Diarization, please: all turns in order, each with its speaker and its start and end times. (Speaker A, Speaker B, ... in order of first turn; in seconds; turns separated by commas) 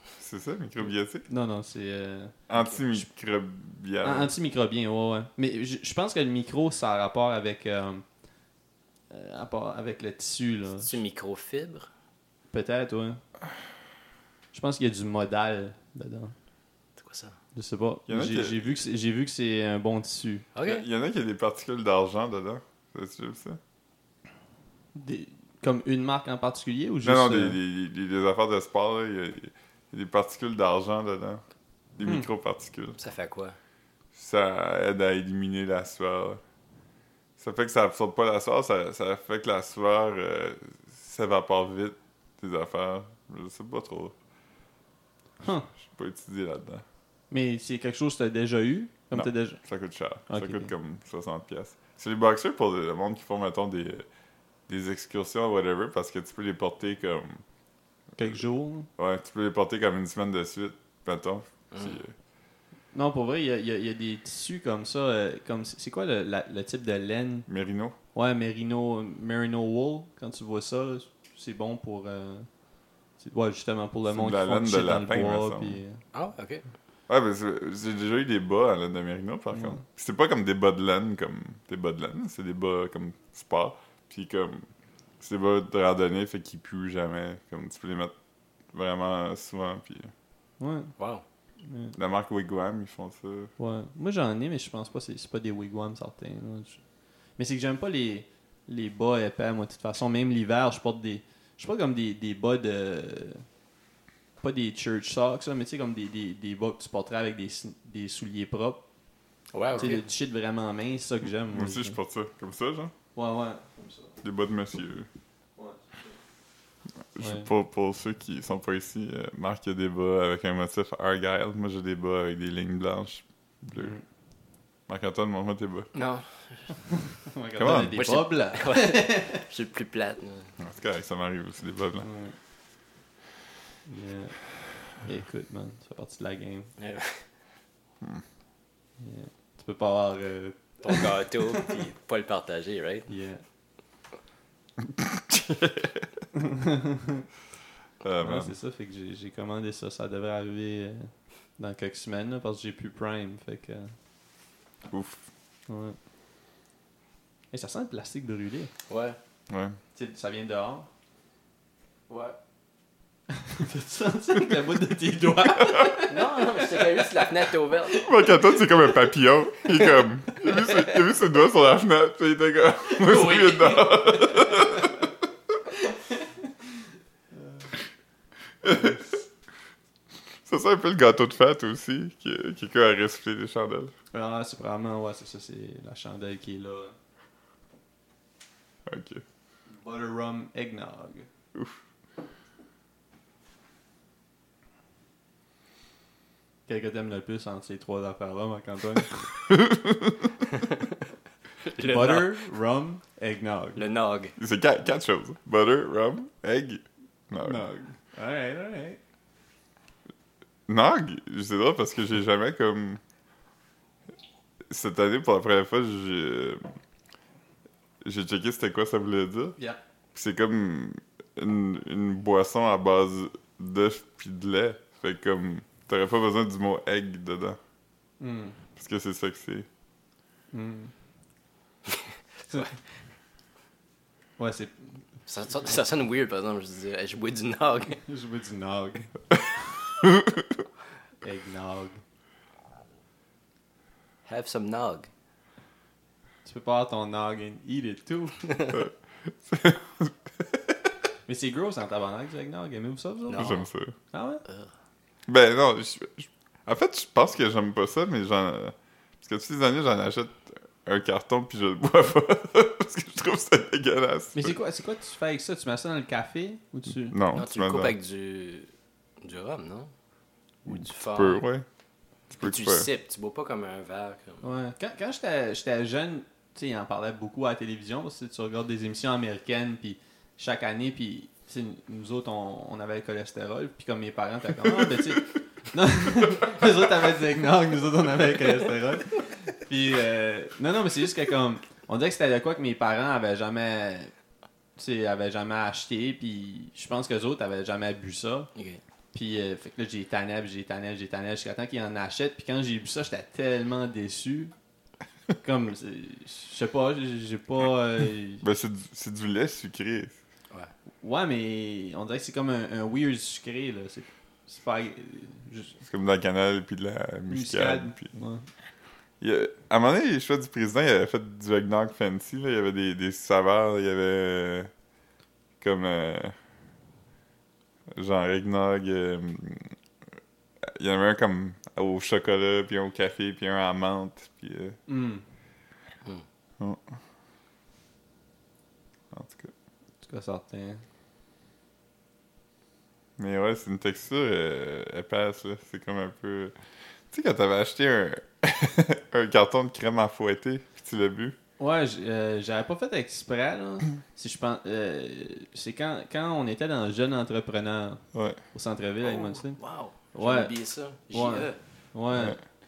Speaker A: 0.2-1.3, Speaker B: 1.3-2.4, Speaker A: 2.5-4.3, Speaker B: 4.0-8.1, Speaker B: 9.1-11.0, Speaker C: 10.8-11.9, Speaker B: 12.5-13.2, Speaker B: 14.5-16.3, Speaker C: 17.0-17.4, Speaker B: 17.5-20.5, Speaker A: 18.1-18.7, Speaker C: 20.6-20.9, Speaker A: 20.6-23.6, Speaker B: 24.9-27.6, Speaker A: 27.0-31.4, Speaker A: 32.0-33.0, Speaker C: 33.0-33.6, Speaker A: 34.1-36.4, Speaker A: 37.4-44.1, Speaker B: 45.4-45.7, Speaker A: 45.8-46.8, Speaker B: 47.3-49.6, Speaker A: 49.1-54.1, Speaker B: 50.3-50.7, Speaker A: 54.7-57.4, Speaker B: 58.2-58.9, Speaker A: 59.0-62.1, Speaker C: 61.7-62.0, Speaker B: 62.9-67.5, Speaker A: 67.5-68.0, Speaker B: 68.1-72.5, Speaker B: 73.2-76.0, Speaker A: 74.1-75.8, Speaker C: 76.1-76.6, Speaker A: 77.1-84.7, Speaker B: 79.5-79.8, Speaker A: 85.2-88.1, Speaker A: 88.7-90.1, Speaker B: 90.6-91.0, Speaker C: 91.0-91.2, Speaker B: 91.6-92.0, Speaker A: 92.0-93.5, Speaker B: 93.6-96.8, Speaker B: 97.4-103.5, Speaker B: 104.4-108.8, Speaker C: 109.5-110.0, Speaker B: 109.8-112.0, Speaker A: 111.5-112.9, Speaker B: 113.2-114.2, Speaker A: 114.2-115.1, Speaker B: 115.6-116.1, Speaker A: 117.2-124.0, Speaker B: 117.2-117.5, Speaker B: 123.8-124.0, Speaker A: 124.9-125.9, Speaker C: 125.9-126.8, Speaker B: 127.2-129.4, Speaker A: 127.6-128.3, Speaker C: 127.9-130.6, Speaker A: 130.6-132.1, Speaker B: 132.0-132.3, Speaker B: 133.9-136.7, Speaker C: 136.8-137.2, Speaker B: 139.0-141.7, Speaker C: 140.8-143.1, Speaker B: 143.1-143.4, Speaker A: 144.8-146.1, Speaker B: 146.3-147.2, Speaker A: 148.0-148.5, Speaker B: 148.2-153.9, Speaker A: 154.9-155.2, Speaker B: 155.7-156.0, Speaker B: 157.5-158.7, Speaker C: 158.9-159.2, Speaker A: 159.5-159.8, Speaker B: 159.9-160.9, Speaker C: 162.1-162.4, Speaker B: 163.4-167.3, Speaker A: 165.6-166.0, Speaker C: 166.1-168.1, Speaker A: 168.0-175.1, Speaker C: 170.5-171.0, Speaker C: 173.0-174.2, Speaker B: 174.3-174.9, Speaker B: 177.4-177.7, Speaker A: 178.6-179.0, Speaker B: 178.7-179.0, Speaker A: 180.5-183.9, Speaker B: 184.1-186.9, Speaker A: 188.9-189.2, Speaker B: 189.7-191.3, Speaker B: 196.7-199.3, Speaker A: 199.5-200.3, Speaker C: 201.6-202.4, Speaker B: 201.8-203.8, Speaker C: 203.8-204.3, Speaker A: 204.4-207.6, Speaker B: 207.4-209.0, Speaker A: 210.7-213.0, Speaker A: 214.7-216.7, Speaker A: 218.0-219.6, Speaker A: 220.1-227.6, Speaker B: 228.2-228.6, Speaker A: 228.8-229.7, Speaker B: 230.5-230.9, Speaker B: 234.4-235.0, Speaker C: 235.3-238.0, Speaker B: 237.9-239.1, Speaker A: 240.0-240.6, Speaker B: 241.2-242.0, Speaker C: 244.2-245.1, Speaker B: 246.5-248.4, Speaker A: 248.7-250.6, Speaker B: 251.3-254.4, Speaker C: 253.3-253.6, Speaker A: 253.3-253.9, Speaker A: 255.3-264.6, Speaker B: 264.3-267.2, Speaker A: 267.1-267.9, Speaker C: 267.3-269.9, Speaker C: 270.6-271.4, Speaker A: 270.7-271.6, Speaker A: 272.3-272.9, Speaker C: 272.4-274.5, Speaker B: 274.4-294.1, Speaker A: 284.7-285.0, Speaker B: 294.8-298.5, Speaker C: 298.6-298.8, Speaker B: 299.1-304.5, Speaker B: 305.4-308.4, Speaker A: 308.4-310.2, Speaker B: 311.0-315.7, Speaker A: 315.8-318.1, Speaker B: 317.3-318.5, Speaker A: 319.2-324.7, Speaker A: 325.6-326.4, Speaker A: 327.9-329.8, Speaker A: 330.6-334.8, Speaker B: 334.9-335.2, Speaker A: 339.1-339.5, Speaker B: 340.0-340.8, Speaker A: 343.2-346.5, Speaker A: 347.1-351.4, Speaker B: 351.6-359.6, Speaker A: 358.1-358.4, Speaker C: 359.0-361.6, Speaker B: 360.1-360.5, Speaker B: 361.1-362.4, Speaker A: 362.1-362.4